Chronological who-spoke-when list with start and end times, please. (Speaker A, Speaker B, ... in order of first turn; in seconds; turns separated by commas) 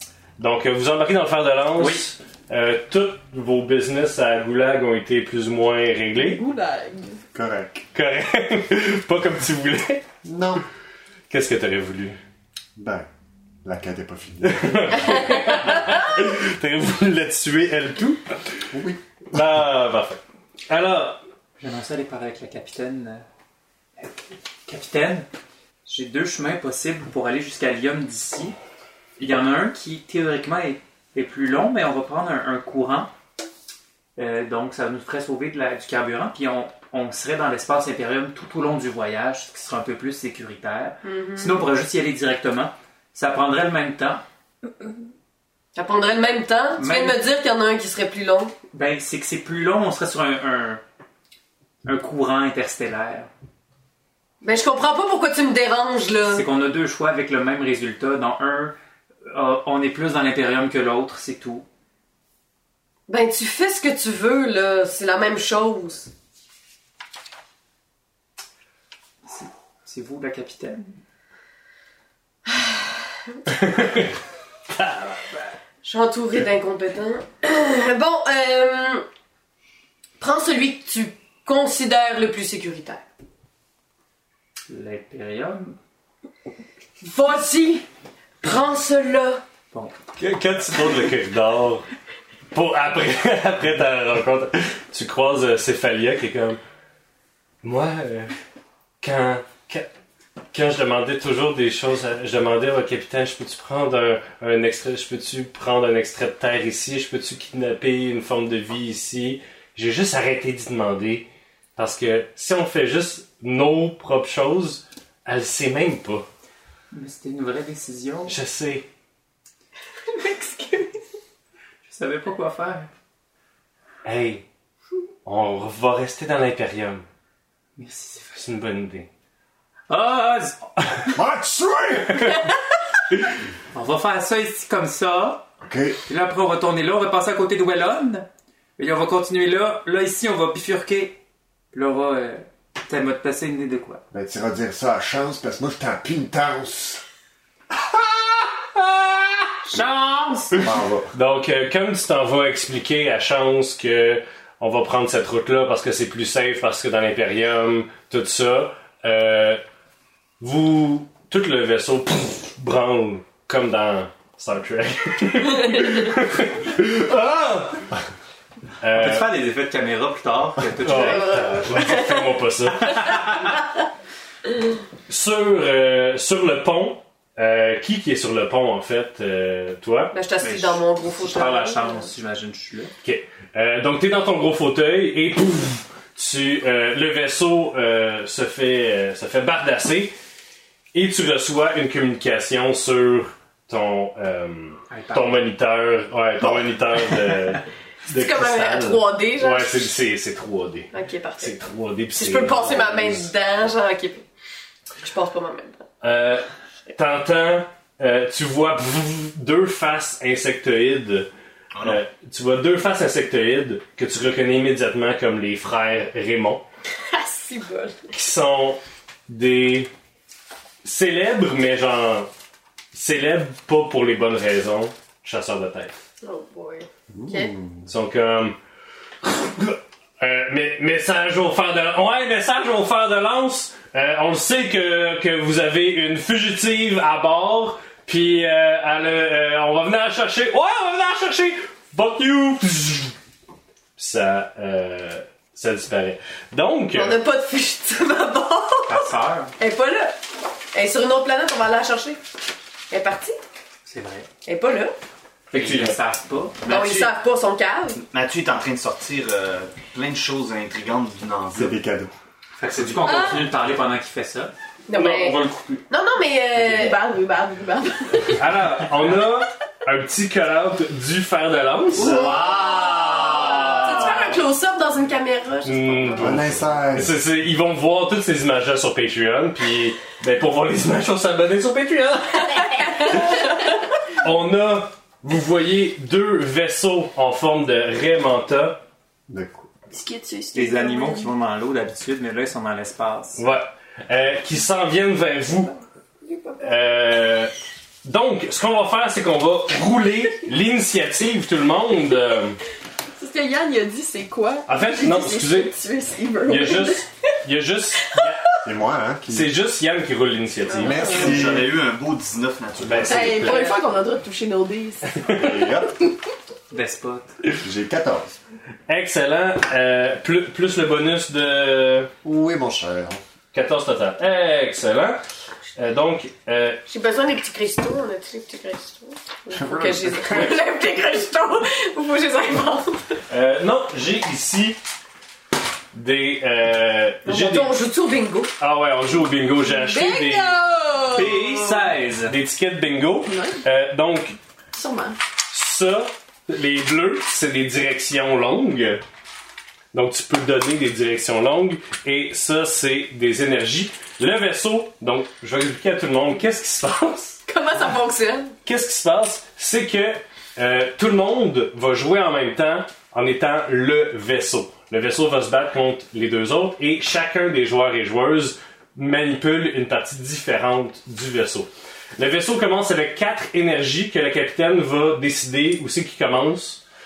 Speaker A: 0.4-6.4, Speaker B: 1.8-2.1, Speaker C: 6.2-7.2, Speaker D: 7.3-7.8, Speaker A: 7.9-10.1, Speaker D: 10.2-10.6, Speaker A: 11.3-12.2, Speaker D: 12.8-13.1, Speaker D: 13.6-15.2, Speaker A: 14.5-18.6, Speaker D: 18.7-19.4, Speaker A: 19.3-21.2, Speaker B: 21.6-23.2, Speaker B: 24.0-25.3, Speaker B: 25.9-28.6, Speaker B: 29.2-33.1, Speaker B: 34.2-44.2, Speaker E: 41.0-41.6, Speaker E: 45.8-48.5, Speaker B: 46.8-47.2, Speaker B: 48.7-50.8, Speaker B: 51.8-53.3, Speaker E: 54.4-56.4, Speaker B: 56.3-58.8, Speaker B: 59.3-61.6, Speaker E: 63.1-66.1, Speaker B: 69.3-71.0, Speaker E: 72.5-73.4, Speaker A: 73.5-74.1, Speaker A: 74.7-75.5, Speaker E: 75.8-79.0, Speaker E: 80.2-83.0, Speaker B: 84.7-85.8, Speaker E: 87.0-87.8, Speaker E: 88.4-89.4, Speaker A: 90.2-91.9, Speaker A: 92.5-96.6, Speaker A: 97.6-98.3, Speaker A: 99.0-99.9, Speaker A: 100.5-116.3, Speaker B: 116.9-118.4, Speaker A: 118.3-118.9, Speaker E: 120.1-121.0, Speaker B: 121.8-122.9, Speaker A: 124.0-124.5, Speaker A: 125.2-127.0, Speaker B: 127.8-128.4, Speaker A: 128.3-129.1, Speaker B: 129.9-131.0, Speaker D: 131.1-132.4, Speaker B: 133.7-135.5, Speaker D: 135.6-136.0, Speaker B: 136.1-141.2, Speaker B: 141.7-144.0, Speaker D: 144.1-147.0, Speaker D: 147.8-148.5, Speaker A: 148.8-149.3, Speaker B: 149.7-150.6, Speaker D: 150.6-151.1, Speaker A: 151.1-159.6, Speaker A: 160.4-167.9, Speaker A: 168.8-169.3, Speaker B: 168.9-171.7, Speaker A: 170.8-173.3, Speaker E: 170.9-172.0, Speaker A: 175.1-180.2, Speaker E: 180.1-182.1, Speaker B: 180.4-182.9, Speaker A: 183.0-190.2, Speaker A: 190.9-203.3, Speaker B: 194.9-195.3, Speaker E: 198.1-199.9, Speaker E: 200.9-201.5, Speaker E: 202.2-204.2, Speaker E: 205.0-205.8, Speaker A: 206.0-211.3, Speaker F: 211.7-212.0, Speaker A: 211.8-216.6, Speaker E: 217.1-218.1, Speaker A: 218.1-219.9, Speaker A: 220.8-222.3, Speaker A: 222.9-226.0, Speaker E: 226.2-227.6, Speaker D: 227.1-227.8, Speaker A: 227.9-228.6, Speaker A: 229.2-243.2, Speaker A: 244.0-247.2, Speaker E: 246.9-250.2, Speaker B: 248.9-249.5, Speaker E: 250.7-252.2, Speaker E: 252.9-253.4, Speaker B: 253.9-254.3, Speaker E: 254.4-254.9, Speaker B: 255.5-257.1, Speaker A: 255.5-256.0, Speaker E: 256.7-258.0, Speaker F: 258.0-261.8, Speaker D: 261.6-262.1, Speaker B: 262.6-264.5, Speaker C: 263.1-263.4, Speaker E: 264.9-267.0, Speaker A: 264.9-265.9, Speaker C: 266.6-268.4, Speaker A: 268.4-274.4, Speaker E: 272.1-276.4, Speaker F: 272.1-272.7, Speaker A: 275.6-283.1, Speaker D: 276.2-277.1, Speaker C: 282.5-283.5, Speaker E: 282.8-283.4, Speaker A: 284.2-288.8, Speaker D: 289.3-289.7, Speaker C: 289.9-291.3, Speaker B: 290.5-293.4, Speaker A: 293.4-295.7, Speaker C: 296.3-296.6, Speaker A: 296.6-297.5, Speaker A: 298.1-302.6, Speaker C: 303.2-307.0, Speaker A: 304.7-305.8, Speaker A: 306.4-308.5, Speaker D: 308.6-309.5, Speaker A: 309.3-311.3, Speaker E: 310.8-311.1, Speaker D: 310.8-311.7, Speaker F: 311.0-313.6, Speaker D: 312.8-313.7, Speaker A: 312.9-313.6, Speaker C: 313.1-315.3, Speaker E: 313.5-313.8, Speaker A: 315.2-315.7, Speaker D: 315.3-315.9, Speaker B: 316.7-317.4, Speaker D: 317.6-318.4, Speaker A: 318.9-322.1, Speaker D: 322.2-323.2, Speaker A: 323.5-325.2, Speaker A: 325.8-326.8, Speaker E: 326.9-333.2, Speaker D: 329.5-330.6, Speaker A: 333.3-334.8, Speaker A: 335.9-337.7, Speaker E: 337.2-338.5, Speaker A: 338.6-340.6, Speaker C: 339.6-341.4, Speaker B: 341.1-342.4, Speaker A: 341.1-344.4, Speaker C: 343.3-343.6, Speaker C: 344.7-345.2, Speaker A: 345.5-349.0, Speaker A: 349.9-357.4, Speaker E: 357.5-358.6, Speaker A: 358.6-376.8